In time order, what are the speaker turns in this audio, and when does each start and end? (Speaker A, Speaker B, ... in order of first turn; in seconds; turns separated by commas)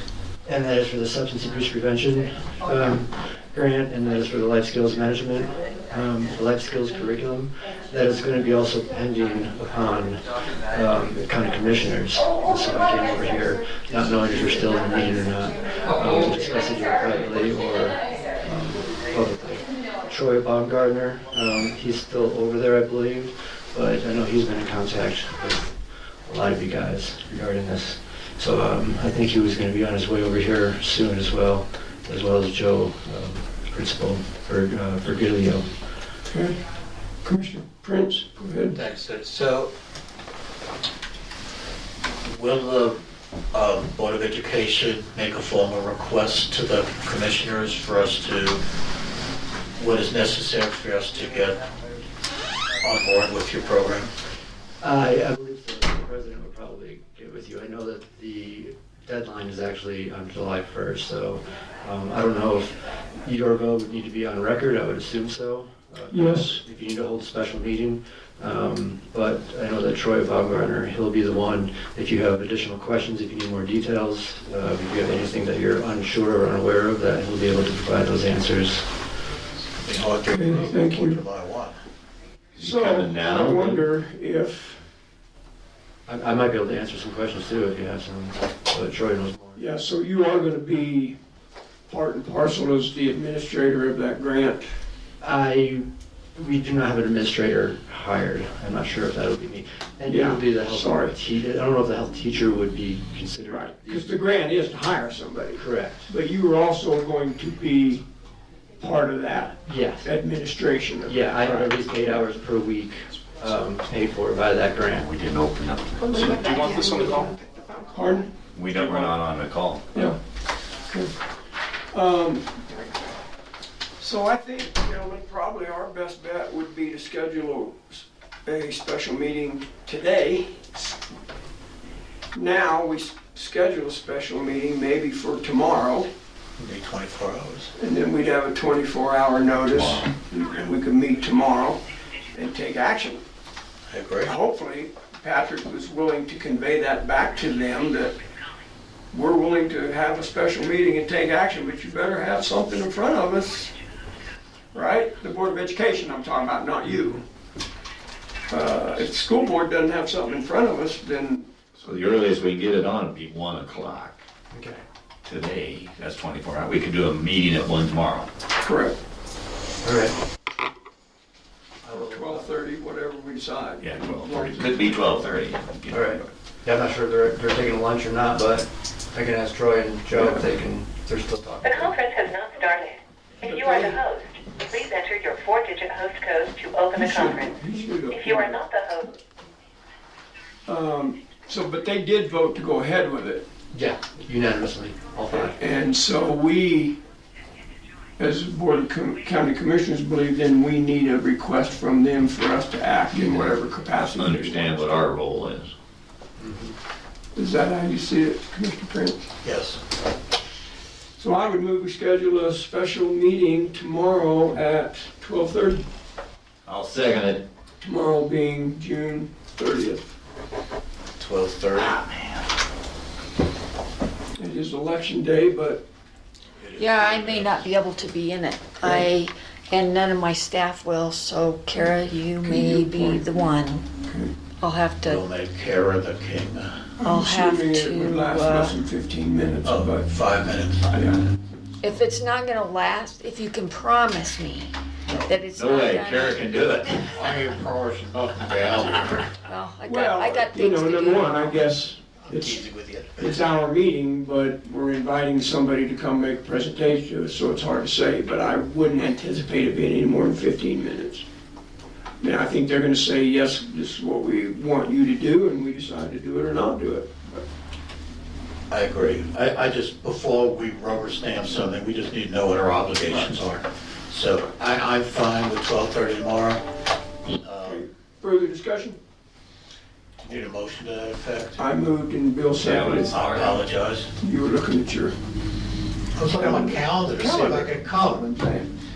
Speaker A: 0.5-25.8, Speaker A: 26.3-35.7, Speaker B: 36.2-36.6, Speaker B: 37.2-38.8, Speaker C: 38.7-39.7, Speaker C: 42.2-43.0, Speaker C: 43.5-48.6, Speaker C: 49.8-51.6, Speaker C: 52.8-54.1, Speaker A: 54.8-78.9, Speaker B: 66.1-66.6, Speaker C: 79.8-81.8, Speaker B: 80.3-81.2, Speaker D: 82.6-83.9, Speaker B: 82.6-84.8, Speaker A: 86.1-89.6, Speaker B: 89.5-91.2, Speaker B: 91.9-94.7, Speaker A: 95.2-104.1, Speaker B: 100.1-101.1, Speaker B: 103.5-108.0, Speaker A: 105.6-106.1, Speaker B: 108.8-111.8, Speaker A: 109.7-110.1, Speaker A: 111.1-115.1, Speaker D: 115.0-117.3, Speaker B: 117.9-119.1, Speaker D: 118.5-119.8, Speaker B: 119.9-120.2, Speaker B: 121.9-122.7, Speaker B: 124.0-130.6, Speaker B: 132.3-136.1, Speaker C: 136.6-137.7, Speaker B: 137.8-143.2, Speaker D: 139.7-140.1, Speaker C: 143.9-144.3, Speaker B: 144.2-148.2, Speaker B: 149.1-153.8, Speaker B: 154.7-157.2, Speaker B: 158.5-161.5, Speaker D: 161.8-164.2, Speaker A: 164.5-164.8, Speaker D: 165.2-168.3, Speaker B: 168.6-169.0, Speaker A: 169.8-170.1, Speaker A: 171.8-172.5, Speaker B: 171.9-175.2, Speaker D: 173.8-176.3, Speaker A: 175.9-182.0, Speaker B: 180.1-180.4, Speaker E: 181.6-187.6, Speaker B: 183.4-184.1, Speaker B: 186.9-188.7, Speaker E: 188.1-189.1, Speaker B: 190.7-193.5, Speaker A: 193.7-195.6, Speaker B: 195.4-197.0, Speaker B: 198.2-204.9, Speaker D: 204.0-205.7, Speaker A: 206.4-206.8, Speaker B: 207.4-209.3, Speaker C: 209.4-209.8, Speaker B: 211.2-215.9, Speaker D: 216.7-217.5, Speaker B: 217.8-220.1, Speaker C: 221.2-222.3, Speaker B: 224.4-225.8, Speaker C: 226.6-227.7, Speaker F: 226.8-233.9, Speaker B: 228.8-229.1, Speaker B: 232.4-233.5, Speaker B: 234.1-234.3, Speaker F: 234.6-235.2, Speaker C: 235.0-236.9, Speaker B: 237.0-240.2, Speaker F: 237.0-238.8, Speaker C: 239.6-241.1, Speaker B: 240.9-241.3, Speaker F: 241.8-244.7, Speaker F: 245.3-246.5, Speaker D: 245.5-247.3, Speaker C: 247.1-249.3, Speaker F: 249.3-251.7, Speaker B: 249.8-252.6, Speaker C: 252.2-253.3, Speaker B: 253.2-261.2, Speaker B: 262.2-267.4, Speaker C: 268.7-276.6, Speaker B: 273.1-273.4, Speaker C: 277.4-277.8, Speaker B: 277.6-279.0, Speaker C: 280.2-281.6, Speaker B: 281.6-283.2, Speaker D: 282.6-283.6, Speaker C: 283.1-284.1, Speaker B: 284.2-285.1, Speaker C: 286.1-288.2, Speaker B: 286.3-288.7